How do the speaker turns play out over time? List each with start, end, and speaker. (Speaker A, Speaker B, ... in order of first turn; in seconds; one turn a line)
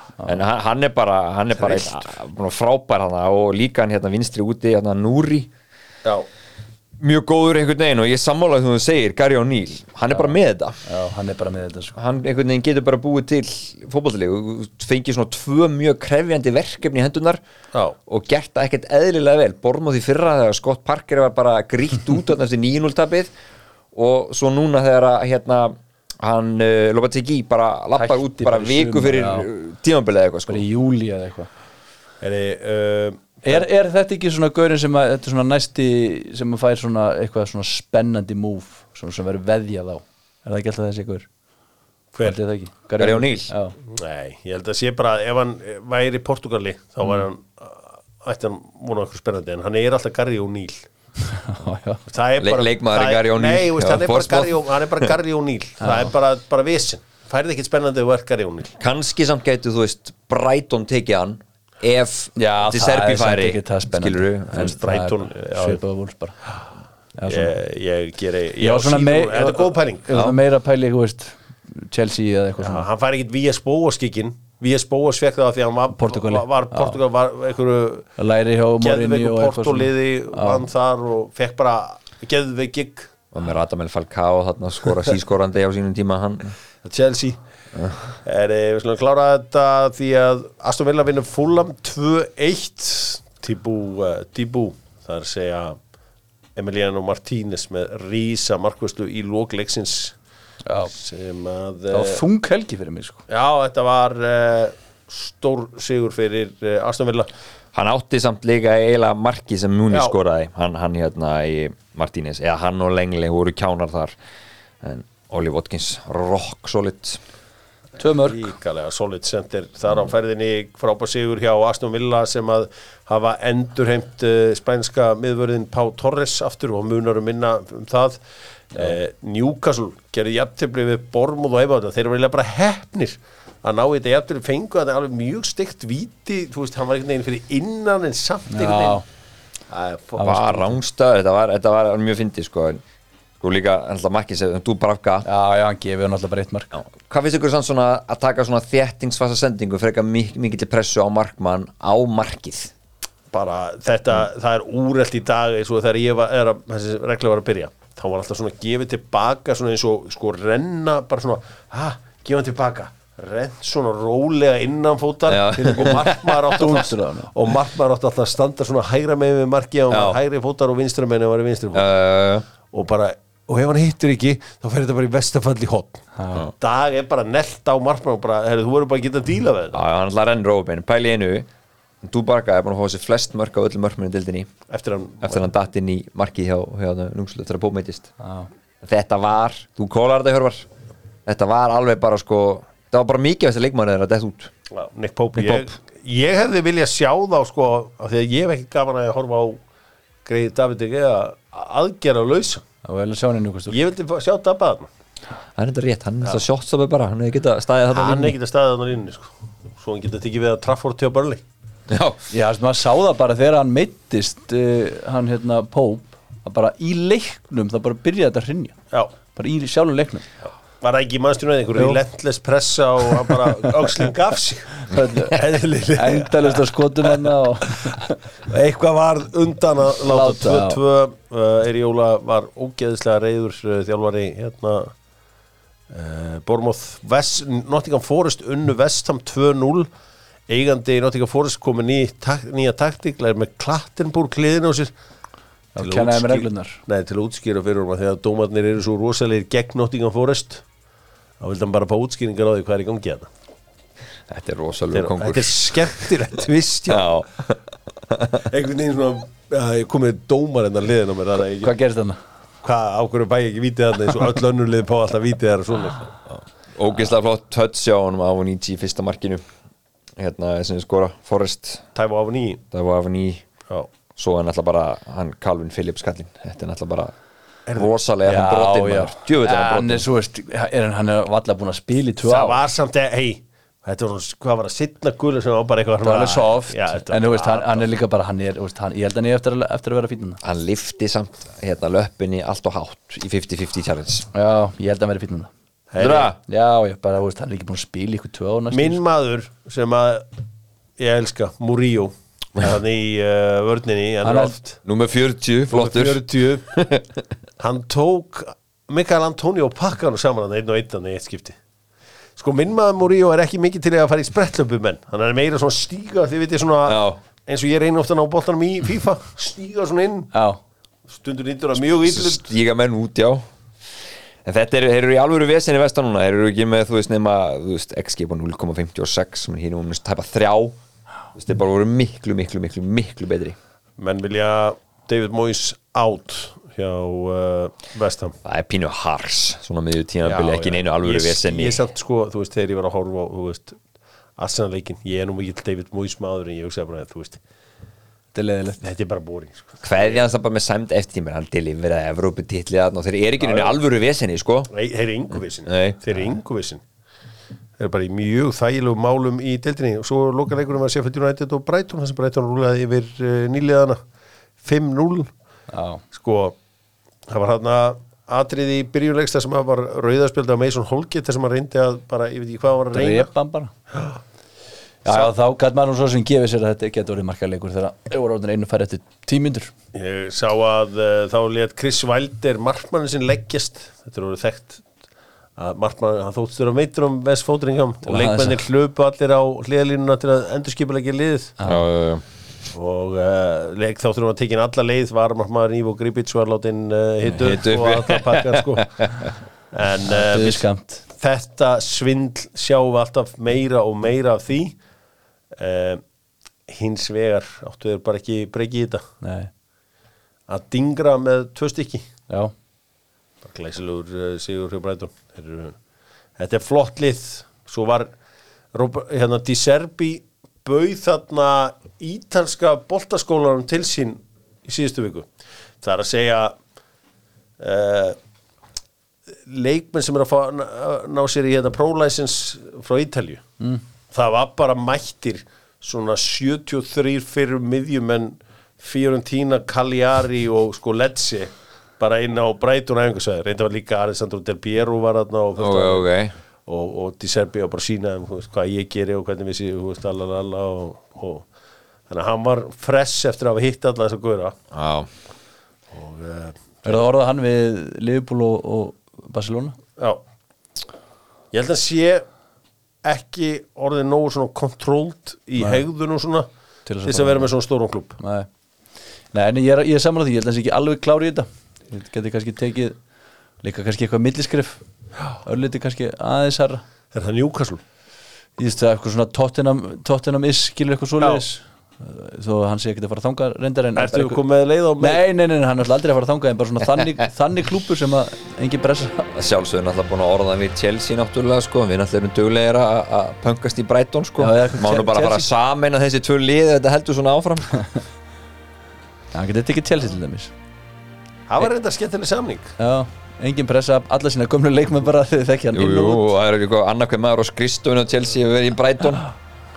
Speaker A: 0.2-5.5
Speaker B: 1.6-2.0
Speaker A: 7.0-10.8
Speaker C: 10.9-11.9
Speaker A: 11.9-17.4
Speaker A: 18.1-23.3
Speaker A: 23.9-30.6
Speaker C: 28.0-29.5
Speaker C: 30.5-31.5
Speaker B: 32.2-33.6
Speaker C: 33.4-41.3
Speaker C: 42.2-43.8
Speaker A: 43.0-43.5
Speaker B: 43.9-50.8
Speaker C: 51.2-52.0
Speaker B: 52.1-58.8
Speaker A: 52.4-55.1
Speaker C: 55.8-56.1
Speaker A: 58.8-64.8
Speaker C: 62.4-66.4
Speaker B: 64.5-65.8
Speaker C: 67.2-67.5
Speaker B: 67.3-70.1
Speaker C: 68.6-72.8
Speaker A: 70.1-70.4
Speaker B: 72.6-78.1
Speaker C: 75.9-77.0
Speaker C: 78.2-80.7
Speaker B: 78.8-83.1
Speaker A: 83.3-86.5
Speaker B: 86.8-87.4
Speaker B: 88.2-95.8
Speaker B: 96.6-100.2
Speaker C: 100.7-100.9
Speaker B: 100.9-102.2
Speaker C: 101.9-103.2
Speaker B: 103.3-107.3
Speaker A: 107.7-114.2
Speaker A: 114.8-117.2
Speaker C: 118.0-118.5
Speaker B: 118.1-128.2
Speaker B: 128.7-139.0
Speaker C: 138.5-139.0
Speaker B: 139.7-140.7
Speaker A: 140.2-142.8
Speaker A: 143.4-145.3
Speaker C: 145.2-146.7
Speaker A: 146.7-152.7
Speaker B: 153.3-171.9
Speaker A: 165.3-166.4
Speaker C: 166.5-167.3
Speaker A: 169.9-170.2
Speaker A: 171.7-172.4
Speaker B: 172.7-176.1
Speaker C: 176.2-176.5
Speaker B: 176.6-179.8
Speaker A: 179.7-181.5
Speaker A: 182.0-184.5
Speaker B: 184.7-185.5
Speaker A: 185.2-188.1
Speaker C: 188.2-188.5
Speaker A: 188.8-190.7
Speaker A: 191.3-194.5
Speaker B: 194.7-199.6
Speaker A: 195.4-195.7
Speaker B: 200.3-202.6
Speaker C: 202.8-203.8
Speaker B: 203.7-204.9
Speaker A: 205.6-208.4
Speaker B: 207.9-211.4
Speaker A: 211.9-212.2
Speaker C: 212.3-218.8
Speaker C: 219.3-220.3
Speaker B: 220.8-227.9
Speaker C: 221.8-222.0
Speaker C: 224.8-228.2
Speaker B: 228.5-234.9
Speaker C: 230.0-230.8
Speaker B: 235.9-239.9
Speaker B: 240.5-244.9
Speaker C: 245.8-246.8
Speaker B: 245.8-250.6
Speaker B: 251.4-253.3
Speaker A: 254.3-255.9
Speaker B: 254.9-257.2
Speaker A: 256.9-257.6
Speaker A: 258.1-258.4
Speaker B: 258.4-261.7
Speaker C: 261.6-262.2
Speaker B: 262.6-266.2
Speaker A: 266.8-269.4
Speaker A: 270.2-271.9
Speaker B: 271.9-272.6
Speaker A: 272.7-273.4
Speaker A: 274.2-277.1
Speaker A: 277.8-280.1
Speaker C: 278.2-282.6
Speaker B: 282.2-287.9
Speaker C: 286.0-290.4
Speaker A: 290.4-294.3
Speaker C: 294.3-295.5
Speaker B: 295.9-296.3
Speaker A: 296.0-296.4
Speaker C: 296.5-299.0
Speaker B: 298.7-300.3
Speaker B: 301.0-304.8
Speaker C: 304.2-304.6
Speaker A: 304.9-307.1
Speaker B: 305.7-306.8
Speaker B: 307.6-311.6
Speaker B: 312.4-320.3
Speaker A: 316.9-317.2
Speaker C: 320.3-320.6
Speaker B: 321.1-322.4
Speaker A: 322.0-323.4
Speaker A: 324.4-330.8
Speaker A: 331.4-333.6
Speaker B: 334.0-338.4
Speaker A: 338.4-341.8
Speaker B: 340.2-343.8
Speaker B: 344.4-347.4
Speaker C: 348.3-348.8
Speaker B: 348.8-350.2
Speaker A: 349.8-354.7
Speaker B: 353.4-353.8
Speaker B: 354.7-356.8
Speaker A: 355.7-356.0
Speaker B: 357.8-364.0
Speaker B: 364.6-365.3
Speaker C: 365.7-366.0
Speaker B: 366.1-366.6
Speaker B: 367.3-373.3
Speaker C: 372.9-373.7
Speaker B: 373.9-374.2
Speaker C: 375.1-379.7
Speaker B: 375.1-375.3
Speaker B: 379.9-384.8
Speaker B: 385.6-391.6
Speaker C: 388.1-388.6
Speaker A: 391.7-392.2
Speaker B: 392.7-398.9
Speaker A: 397.2-399.3
Speaker B: 399.7-404.8
Speaker C: 400.1-401.0
Speaker B: 405.6-406.0
Speaker B: 406.7-409.1
Speaker C: 409.2-409.5
Speaker B: 410.5-412.1
Speaker B: 413.4-415.8
Speaker B: 416.4-418.1
Speaker B: 418.7-425.3
Speaker B: 425.8-426.6
Speaker B: 427.6-428.2
Speaker B: 429.5-433.4
Speaker B: 434.1-446.1
Speaker A: 445.6-446.4
Speaker B: 446.7-451.4
Speaker B: 452.1-454.6
Speaker A: 454.7-455.1
Speaker B: 455.9-457.0
Speaker C: 456.9-459.8
Speaker B: 461.5-462.3
Speaker B: 463.0-466.5
Speaker C: 466.9-467.5
Speaker B: 467.1-468.2
Speaker C: 468.2-468.5
Speaker C: 469.3-473.0
Speaker C: 473.6-474.8
Speaker C: 475.4-476.8
Speaker B: 477.1-477.8
Speaker C: 478.6-484.4
Speaker B: 484.0-485.2
Speaker C: 485.0-489.3
Speaker A: 489.3-497.8
Speaker C: 494.4-495.5
Speaker C: 499.3-500.5
Speaker B: 501.5-502.7
Speaker C: 502.8-506.3
Speaker A: 505.7-509.2